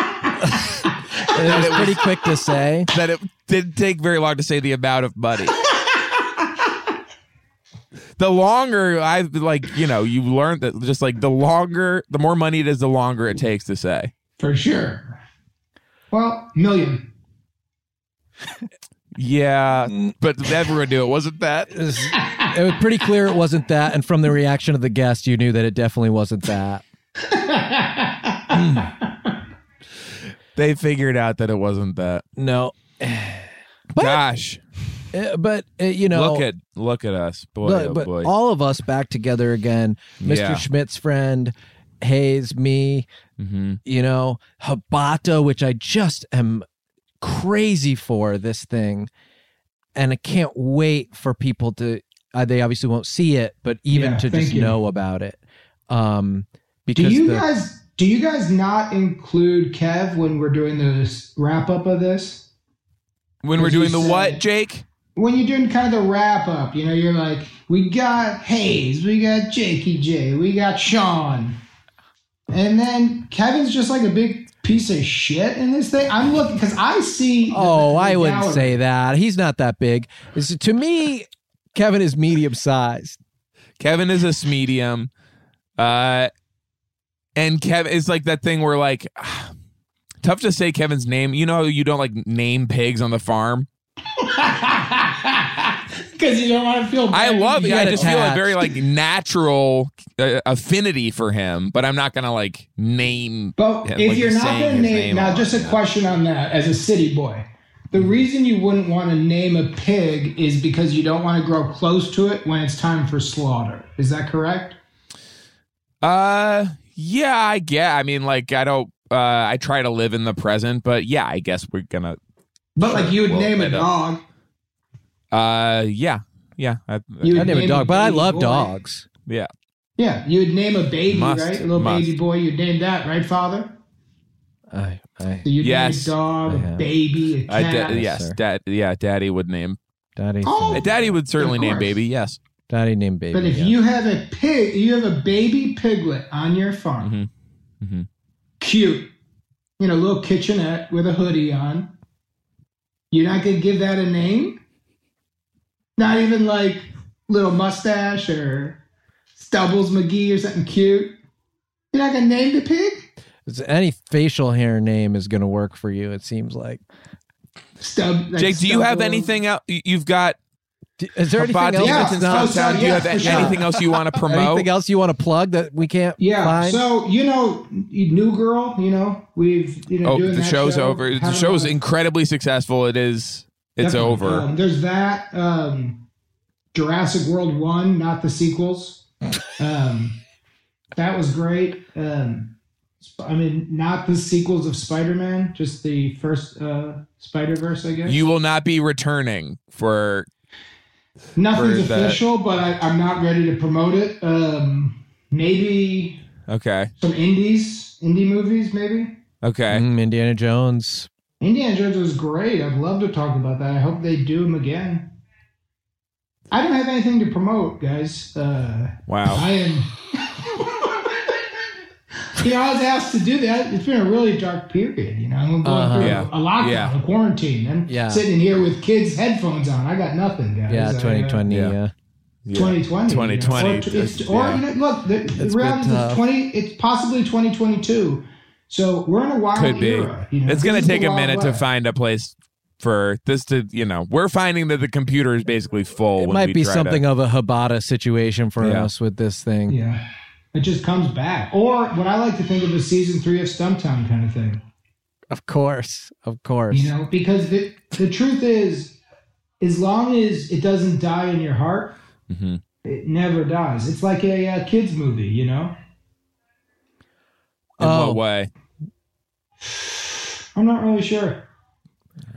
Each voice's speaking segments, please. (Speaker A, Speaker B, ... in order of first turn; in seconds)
Speaker A: 0.4-2.9, 21.7-26.8, 28.5-28.9, 32.4-34.2, 35.1-36.5, 37.6-43.1, 43.8-46.6, 47.2-49.1, 49.9-57.5, 77.5-83.2, 97.6-98.6, 127.3-129.1, 134.7-135.5, 136.5-136.9, 137.9-138.4, 140.2-141.0, 142.7-143.7, 163.4-166.8, 171.0-176.8, 209.7-211.1, 225.6-226.2, 227.9-228.2, 230.7-231.9, 235.4-236.2, 246.2-249.8, 255.3-256.9, 267.8-268.2
Speaker B: 1.4-2.0, 2.9-5.5, 8.2-14.1, 19.1-21.8, 30.5-32.2, 34.0-34.6, 36.1-38.3, 40.2-40.6, 43.4-43.8, 63.4-64.8, 83.8-85.1, 85.8-86.3, 87.3-89.5, 90.2-93.7, 97.1-105.8, 116.0-122.2, 122.8-123.9, 125.3-127.7, 131.1-132.1, 135.6-136.1, 137.5-139.8, 140.7-142.4, 147.0-147.3, 147.8-148.1, 168.3-170.4, 171.3-174.7, 180.0-184.5, 198.1-200.3, 201.5-202.2, 206.5-206.9, 209.4-209.8, 219.1-219.4, 226.0-226.9, 231.5-231.8, 232.4-234.6, 239.5-247.0, 248.6-248.9, 262.3-262.6, 267.8-268.5
Speaker C: 14.4-15.2, 16.1-17.1, 22.1-22.5, 27.3-28.9, 53.9-54.8, 56.9-62.4, 63.6-64.4, 65.2-71.6, 72.5-78.8, 94.2-98.3, 103.6-114.8, 122.8-124.2, 127.2-128.7, 130.0-133.7, 135.4-138.1, 140.4-142.0, 143.3-147.1, 148.6-149.1, 149.8-151.9, 153.1-154.6, 156.0-158.8, 159.3-161.2, 161.9-163.0, 167.8-169.3, 171.8-173.7, 176.2-181.7, 183.8-186.0, 186.7-189.0, 189.6-190.2, 190.9-198.2, 201.3-206.2, 207.0-209.2, 211.4-215.1, 216.5-219.9, 222.3-231.5, 232.5-241.6, 249.7-250.0, 250.5-254.6, 256.7-258.9, 259.6-262.0, 262.8-265.7, 270.6-271.4